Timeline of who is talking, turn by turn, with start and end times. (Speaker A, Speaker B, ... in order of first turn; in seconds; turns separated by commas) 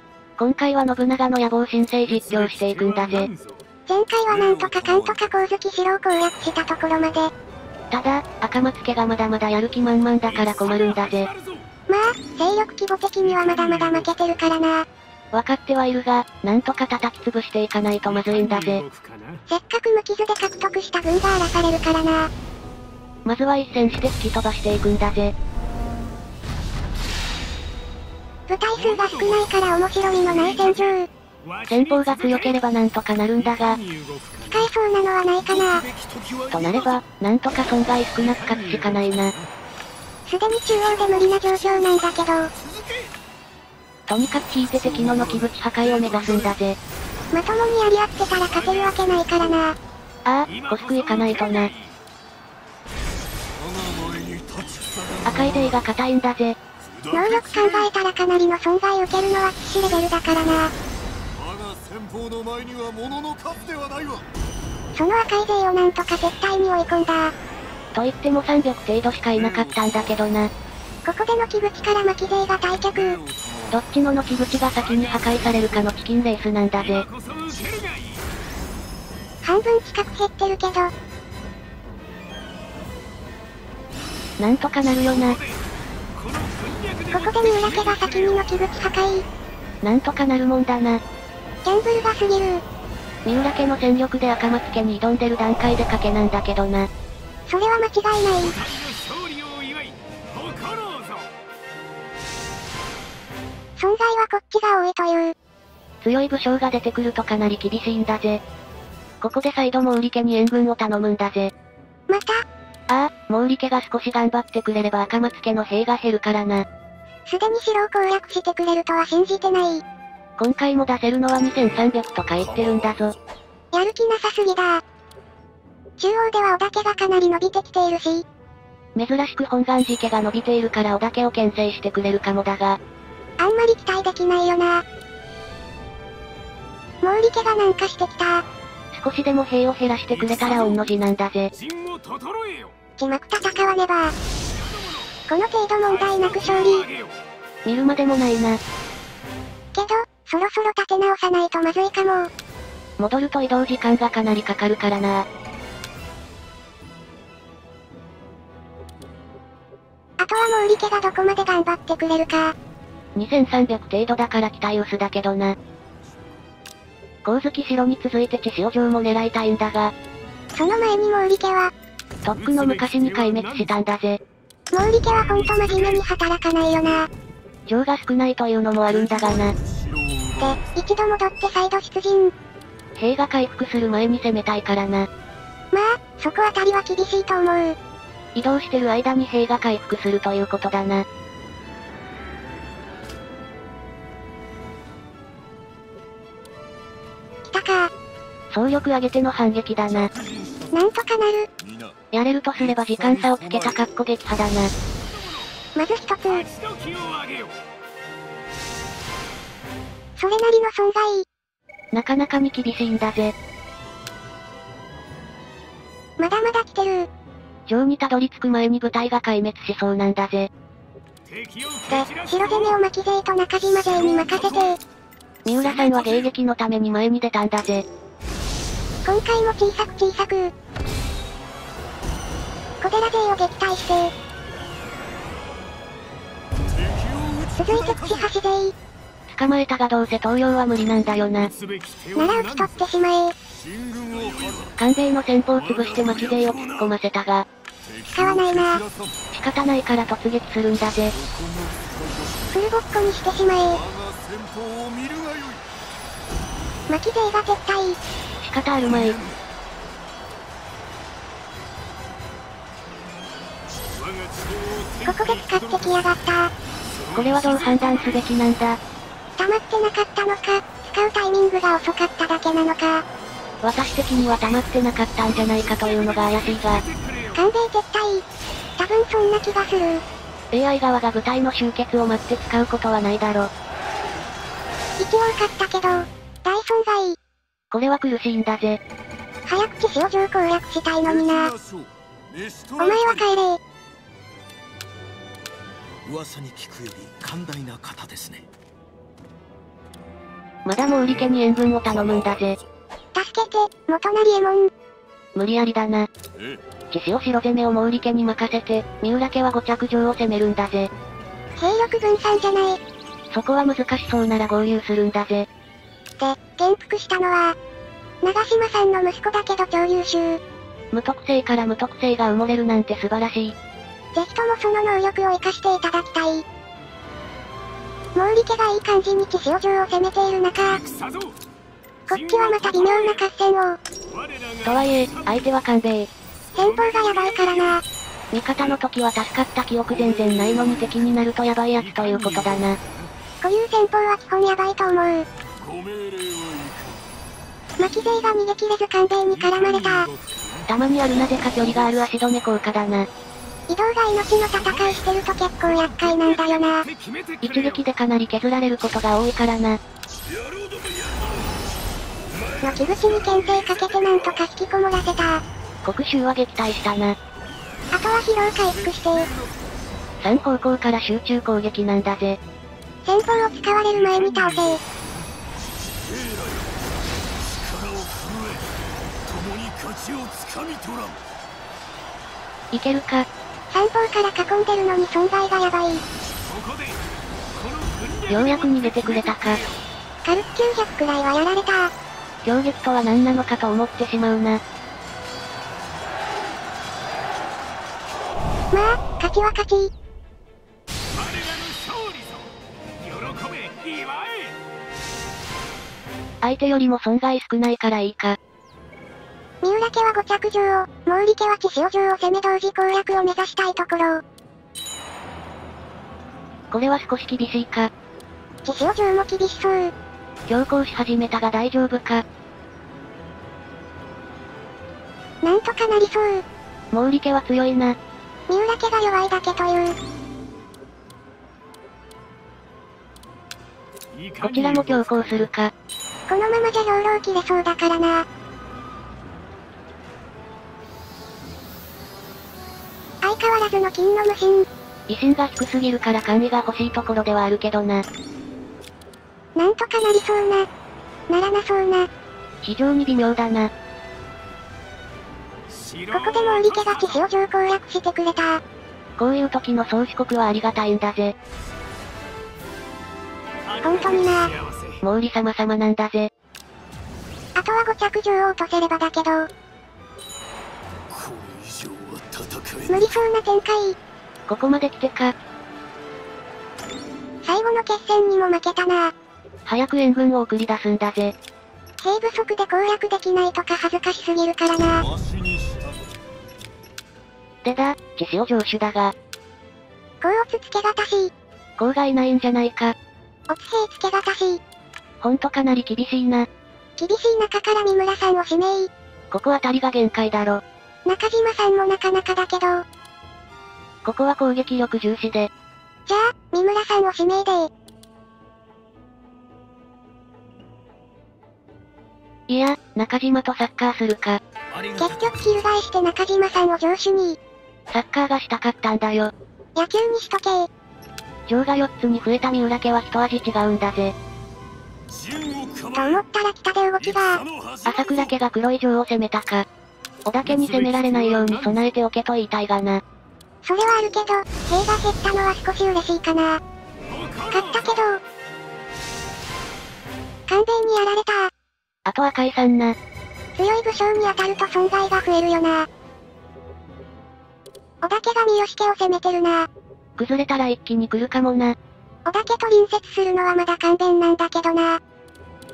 Speaker A: 0.4-3.3, Speaker B: 2.1-3.6, Speaker C: 3.9-7.3, Speaker D: 4.3-5.4, Speaker A: 7.9-11.3, Speaker B: 10.2-11.7, Speaker C: 11.9-14.8, Speaker B: 13.2-14.1, Speaker A: 15.3-18.8, Speaker B: 18.0-19.4, Speaker C: 19.5-22.3, Speaker A: 23.2-25.3, Speaker C: 28.5-31.1, Speaker B: 28.7-32.6, Speaker A: 31.7-33.8, Speaker B: 33.4-34.7, Speaker C: 34.5-35.8, Speaker B: 35.6-36.7, Speaker A: 36.5-39.3, Speaker D: 36.5-37.0, Speaker B: 38.2-39.5, Speaker C: 40.3-42.5, Speaker B: 40.7-42.0, Speaker B: 42.5-43.1, Speaker A: 44.1-46.8, Speaker D: 44.6-46.4, Speaker B: 45.8-46.4, Speaker C: 47.3-49.8, Speaker B: 48.5-49.5, Speaker A: 50.3-51.7, Speaker B: 50.5-52.0, Speaker D: 53.5-55.9, Speaker A: 55.3-56.6, Speaker D: 56.9-57.9, Speaker C: 57.1-60.7, Speaker D: 61.3-64.2, Speaker C: 64.9-67.3, Speaker A: 67.9-70.5, Speaker D: 69.3-69.9, Speaker C: 71.0-73.2, Speaker D: 72.7-73.8, Speaker A: 73.7-77.1, Speaker B: 74.7-75.8, Speaker B: 76.8-78.3, Speaker C: 79.4-80.9, Speaker A: 84.4-85.4, Speaker B: 85.1-85.6, Speaker B: 86.1-88.6, Speaker C: 87.1-89.2, Speaker A: 89.8-91.0, Speaker C: 91.6-92.6, Speaker A: 93.2-96.9, Speaker C: 97.5-98.5, Speaker B: 98.4-101.3, Speaker C: 103.8-105.3, Speaker A: 106.0-108.4, Speaker A: 109.2-111.5, Speaker C: 112.1-112.4, Speaker A: 112.9-116.6, Speaker C: 117.3-119.8, Speaker A: 120.4-123.1, Speaker D: 122.4-123.1, Speaker C: 123.7-124.8, Speaker C: 126.0-128.2, Speaker A: 128.9-132.8, Speaker C: 133.4-134.8, Speaker C: 137.0-138.4, Speaker A: 138.9-141.5, Speaker B: 140.1-140.9, Speaker B: 141.5-142.8, Speaker C: 143.0-144.1, Speaker B: 144.4-145.1, Speaker C: 145.3-146.8, Speaker B: 145.8-147.2, Speaker A: 147.6-148.6, Speaker C: 149.7-152.3, Speaker A: 153.0-155.2, Speaker C: 160.2-162.5, Speaker A: 163.1-165.6, Speaker A: 167.2-169.9, Speaker C: 170.5-171.7, Speaker A: 172.2-174.2, Speaker B: 172.3-173.8, Speaker C: 174.7-177.1, Speaker B: 175.0-176.0, Speaker A: 177.7-179.5, Speaker D: 178.8-180.8, Speaker C: 180.4-182.3, Speaker A: 183.0-185.1, Speaker C: 185.7-187.8, Speaker A: 188.3-191.0, Speaker C: 197.4-197.9, Speaker A: 198.5-200.1, Speaker D: 199.9-200.9, Speaker C: 200.7-201.5, Speaker D: 201.6-202.0, Speaker A: 202.1-204.7, Speaker D: 202.6-203.8, Speaker B: 205.0-205.5, Speaker C: 205.8-206.4, Speaker B: 206.3-207.6, Speaker C: 210.2-211.2, Speaker A: 211.9-213.3, Speaker C: 216.2-217.1, Speaker A: 217.7-220.5, Speaker B: 221.2-222.8, Speaker C: 221.9-224.8, Speaker B: 223.9-224.7, Speaker A: 225.4-227.8, Speaker B: 225.5-226.3, Speaker C: 229.0-230.5, Speaker C: 232.8-234.1, Speaker D: 236.7-238.3, Speaker C: 237.6-238.7, Speaker A: 239.3-241.5, Speaker B: 241.4-242.9, Speaker C: 242.2-243.3, Speaker D: 243.5-244.8, Speaker B: 244.1-244.7, Speaker A: 244.8-247.5, Speaker B: 245.6-246.8, Speaker D: 246.2-246.8, Speaker D: 247.8-249.2, Speaker C: 248.1-248.8, Speaker A: 249.3-251.1, Speaker D: 251.1-252.7, Speaker C: 252.5-253.8, Speaker D: 253.6-255.6, Speaker C: 256.9-258.0, Speaker A: 258.4-259.2, Speaker D: 258.8-259.4, Speaker B: 263.9-266.1, Speaker C: 265.0-266.5, Speaker B: 266.8-268.2, Speaker A: 267.1-268.8, Speaker C: 269.4-273.1, Speaker A: 273.6-276.8, Speaker B: 275.6-277.4, Speaker C: 277.4-278.2, Speaker C: 278.8-280.0, Speaker A: 280.5-283.5, Speaker C: 285.0-287.2, Speaker A: 287.7-288.8, Speaker C: 289.5-291.5, Speaker D: 291.0-293.3, Speaker C: 292.8-293.6, Speaker B: 296.1-298.4, Speaker A: 300.7-302.6, Speaker D: 302.0-302.6, Speaker C: 303.1-304.7, Speaker A: 305.4-306.1, Speaker D: 306.4-306.6, Speaker A: 306.9-310.9, Speaker C: 311.6-312.8, Speaker A: 313.3-315.5, Speaker C: 316.2-317.6, Speaker C: 318.2-320.4, Speaker A: 320.9-323.5, Speaker C: 324.1-326.4, Speaker C: 328.1-330.8, Speaker B: 330.6-331.4, Speaker B: 332.1-333.2, Speaker C: 332.1-333.8, Speaker B: 334.1-335.5, Speaker A: 334.6-336.1, Speaker B: 336.5-337.8, Speaker C: 336.6-337.8, Speaker A: 338.3-342.8, Speaker B: 340.6-340.9, Speaker B: 341.8-343.1, Speaker C: 343.4-345.2, Speaker D: 345.6-347.0, Speaker C: 347.8-350.1, Speaker B: 349.3-350.7, Speaker A: 350.7-353.1, Speaker C: 353.7-356.9, Speaker B: 354.6-357.9, Speaker A: 357.4-359.8, Speaker B: 360.3-361.5, Speaker B: 362.4-364.4, Speaker C: 362.6-365.4, Speaker A: 365.8-367.2, Speaker C: 367.9-369.3, Speaker D: 368.6-369.5, Speaker A: 370.2-372.4, Speaker C: 373.0-374.8, Speaker B: 373.8-375.0, Speaker D: 376.1-376.7, Speaker D: 377.8-378.6, Speaker D: 379.3-381.1, Speaker B: 380.5-381.1, Speaker A: 382.7-383.3, Speaker C: 383.7-386.0, Speaker B: 386.5-389.8, Speaker A: 388.3-389.6, Speaker C: 390.2-391.9, Speaker A: 392.4-394.6, Speaker C: 398.7-399.9, Speaker B: 401.1-404.6, Speaker A: 406.4-408.4, Speaker C: 409.6-414.2, Speaker A: 416.7-417.9, Speaker C: 418.6-419.9, Speaker A: 420.5-422.2, Speaker C: 425.4-426.4, Speaker A: 426.9-428.0, Speaker C: 428.5-430.0, Speaker B: 434.1-435.5, Speaker A: 434.4-435.7, Speaker C: 436.3-438.2, Speaker C: 443.2-444.7, Speaker A: 445.1-448.1, Speaker C: 449.6-450.7, Speaker C: 451.3-452.1, Speaker A: 452.6-453.7, Speaker B: 455.7-457.2, Speaker C: 456.1-458.6, Speaker A: 459.2-461.4, Speaker B: 463.6-465.0, Speaker C: 463.8-464.5, Speaker A: 465.0-466.3, Speaker C: 467.6-469.5, Speaker B: 471.1-473.1, Speaker C: 472.9-474.0, Speaker A: 474.5-475.4, Speaker C: 477.4-479.1, Speaker A: 479.7-481.3, Speaker C: 482.0-485.1, Speaker D: 485.0-486.1, Speaker A: 487.6-489.1, Speaker C: 490.2-491.3, Speaker A: 491.8-492.9, Speaker C: 493.5-494.6, Speaker A: 495.2-496.5, Speaker C: 497.0-498.9, Speaker A: 499.3-500.6, Speaker C: 501.1-502.8, Speaker A: 504.0-505.5, Speaker C: 506.1-507.7, Speaker A: 512.5-514.4, Speaker B: 514.7-515.5, Speaker C: 515.0-517.4, Speaker A: 517.9-519.3, Speaker C: 519.8-520.7, Speaker A: 521.5-524.1, Speaker B: 525.1-526.1, Speaker D: 525.5-526.1, Speaker C: 525.9-527.4, Speaker D: 527.0-528.1, Speaker B: 527.5-528.0, Speaker A: 527.9-529.6, Speaker A: 530.2-533.0, Speaker B: 530.4-531.9, Speaker C: 533.6-536.6, Speaker B: 537.1-538.0, Speaker C: 537.5-538.2, Speaker C: 540.5-541.5, Speaker A: 542.1-543.0, Speaker C: 543.6-545.9, Speaker C: 548.0-549.7, Speaker A: 550.2-551.8, Speaker C: 552.2-555.0